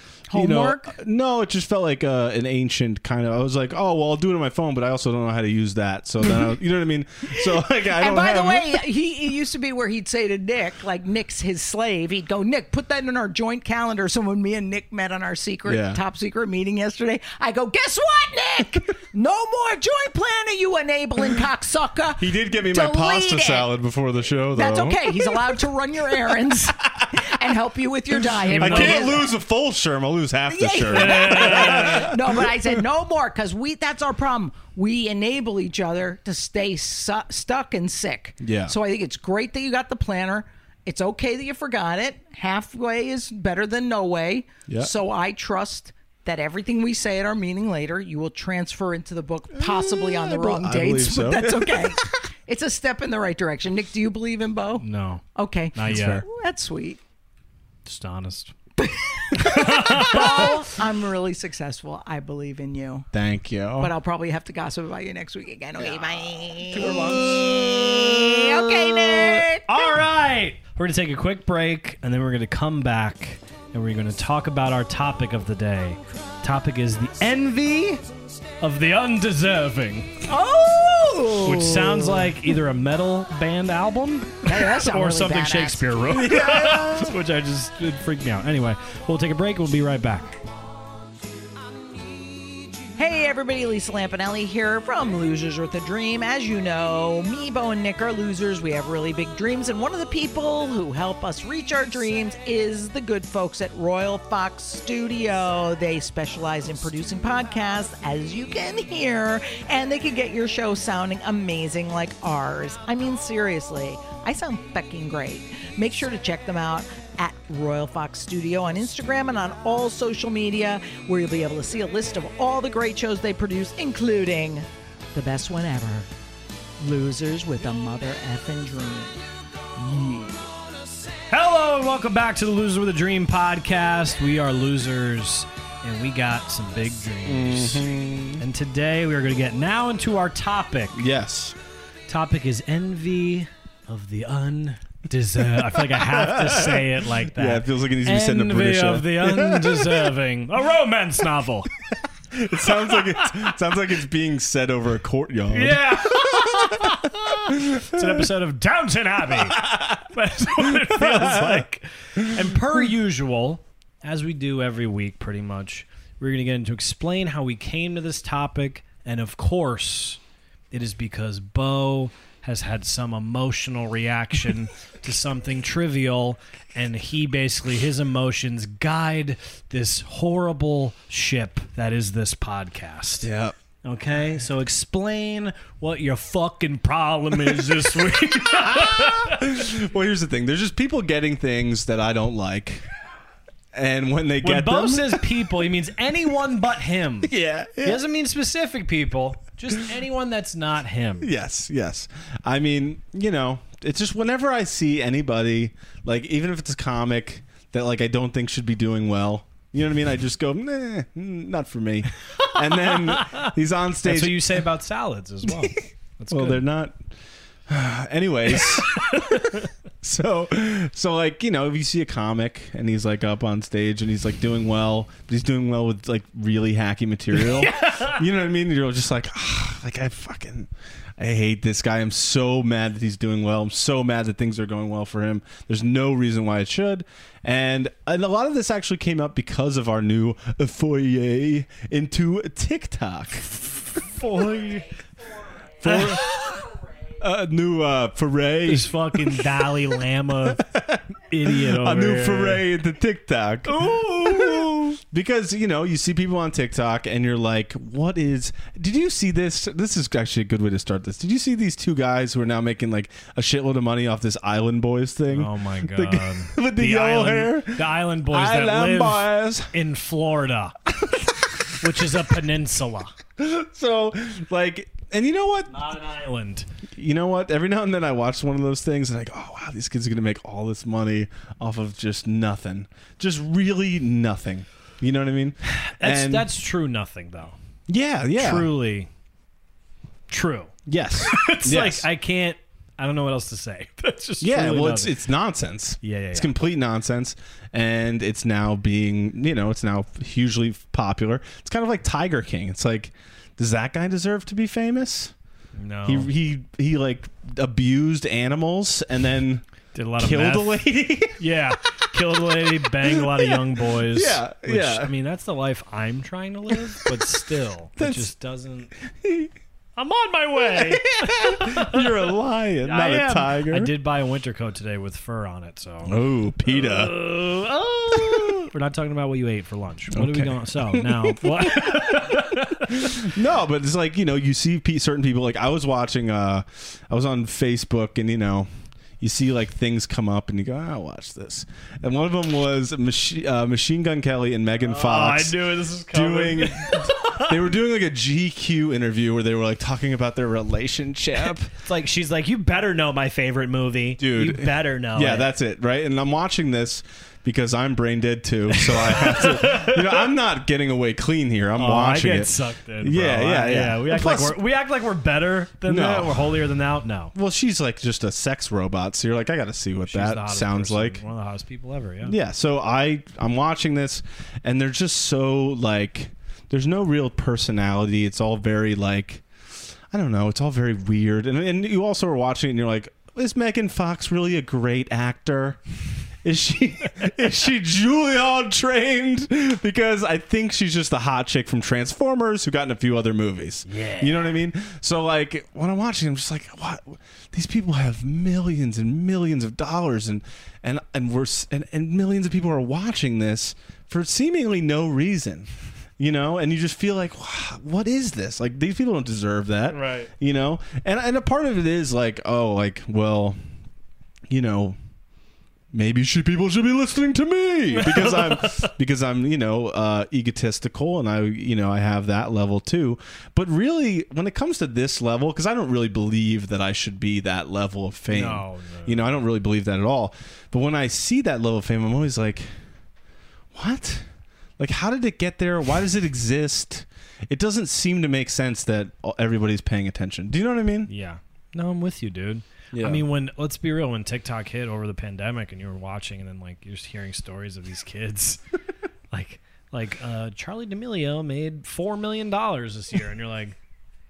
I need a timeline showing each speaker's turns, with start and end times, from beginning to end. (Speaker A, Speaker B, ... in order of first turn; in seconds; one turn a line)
Speaker A: 0.3-0.9
Speaker B: 0.3-8.8
Speaker A: 7.6-23.7
Speaker B: 15.7-16.0
Speaker B: 22.2-25.6
Speaker A: 24.5-29.3
Speaker B: 27.0-27.3
Speaker C: 28.4-29.3
Speaker B: 28.5-32.6
Speaker A: 30.5-57.0
Speaker C: 30.9-32.1
Speaker B: 38.4-38.7
Speaker B: 49.5-52.0
Speaker C: 54.8-56.2
Speaker B: 55.8-56.2
Speaker C: 57.8-58.5
Speaker A: 58.8-63.1
Speaker C: 59.4-60.5
Speaker B: 63.1-63.9
Speaker A: 63.8-69.9
Speaker B: 66.7-67.5
Speaker C: 66.7-67.5
Speaker C: 69.7-78.0
Speaker C: 78.6-80.1
Speaker A: 80.3-82.3
Speaker C: 81.4-90.4
Speaker A: 84.4-85.9
Speaker B: 86.1-87.1
Speaker A: 92.9-126.1
Speaker A: 126.8-129.2
Speaker A: 129.8-130.5
Speaker C: 131.3-137.9
Speaker B: 137.2-138.4
Speaker C: 138.4-141.0
Speaker B: 140.9-141.6
Speaker C: 142.1-151.7
Speaker B: 145.6-150.1
Speaker B: 152.3-157.0
Speaker C: 152.9-153.4
Speaker C: 155.5-170.2
Speaker B: 157.5-158.3
Speaker B: 159.5-160.0
Speaker B: 160.6-161.7
Speaker B: 162.2-162.5
Speaker C: 170.7-183.3
Speaker B: 183.2-183.5
Speaker C: 183.8-189.5
Speaker B: 188.4-192.8
Speaker B: 193.7-195.3
Speaker C: 194.4-201.3
Speaker B: 197.2-198.0
Speaker B: 201.2-214.6
Speaker C: 212.4-213.5
Speaker C: 214.0-216.6
Speaker B: 216.3-217.0
Speaker B: 217.7-219.5
Speaker C: 218.6-219.7
Speaker B: 220.0-244.1
Speaker C: 227.4-228.2
Speaker C: 244.1-244.9
Speaker B: 245.8-246.3
Speaker C: 245.8-246.6
Speaker B: 247.2-249.8
Speaker C: 248.7-250.6
Speaker B: 250.4-269.7
Speaker C: 251.3-252.6
Speaker C: 253.7-254.9
Speaker C: 265.3-270.8
Speaker B: 271.0-271.3
Speaker C: 271.7-273.1
Speaker B: 273.4-275.8
Speaker C: 275.7-276.7
Speaker B: 276.9-286.5
Speaker C: 285.7-287.6
Speaker B: 287.9-288.7
Speaker C: 288.4-289.1
Speaker C: 290.3-295.1
Speaker B: 290.9-292.1
Speaker B: 294.4-305.3
Speaker C: 296.0-296.5
Speaker C: 305.8-306.3
Speaker B: 306.0-309.6
Speaker C: 309.9-318.9
Speaker B: 310.2-311.4
Speaker B: 312.8-315.1
Speaker B: 316.7-317.2
Speaker B: 318.0-318.3
Speaker B: 319.1-319.5
Speaker C: 319.9-322.3
Speaker B: 320.6-323.9
Speaker C: 322.8-333.3
Speaker B: 326.0-327.1
Speaker B: 328.1-328.7
Speaker B: 330.1-338.7
Speaker B: 339.2-351.7
Speaker C: 344.8-347.7
Speaker C: 351.4-355.5
Speaker B: 354.2-364.6
Speaker C: 358.7-360.3
Speaker C: 361.8-367.3
Speaker B: 365.9-366.6
Speaker B: 367.3-371.2
Speaker C: 370.1-372.4
Speaker B: 372.2-379.4
Speaker B: 380.1-385.8
Speaker B: 386.4-413.6
Speaker C: 393.9-394.5
Speaker C: 409.9-410.3
Speaker B: 414.5-415.0
Speaker B: 415.9-432.7
Speaker C: 417.9-418.9
Speaker C: 428.3-429.2
Speaker B: 433.7-434.3
Speaker B: 434.8-441.1
Speaker C: 441.1-448.6
Speaker B: 442.9-443.2
Speaker C: 449.3-453.8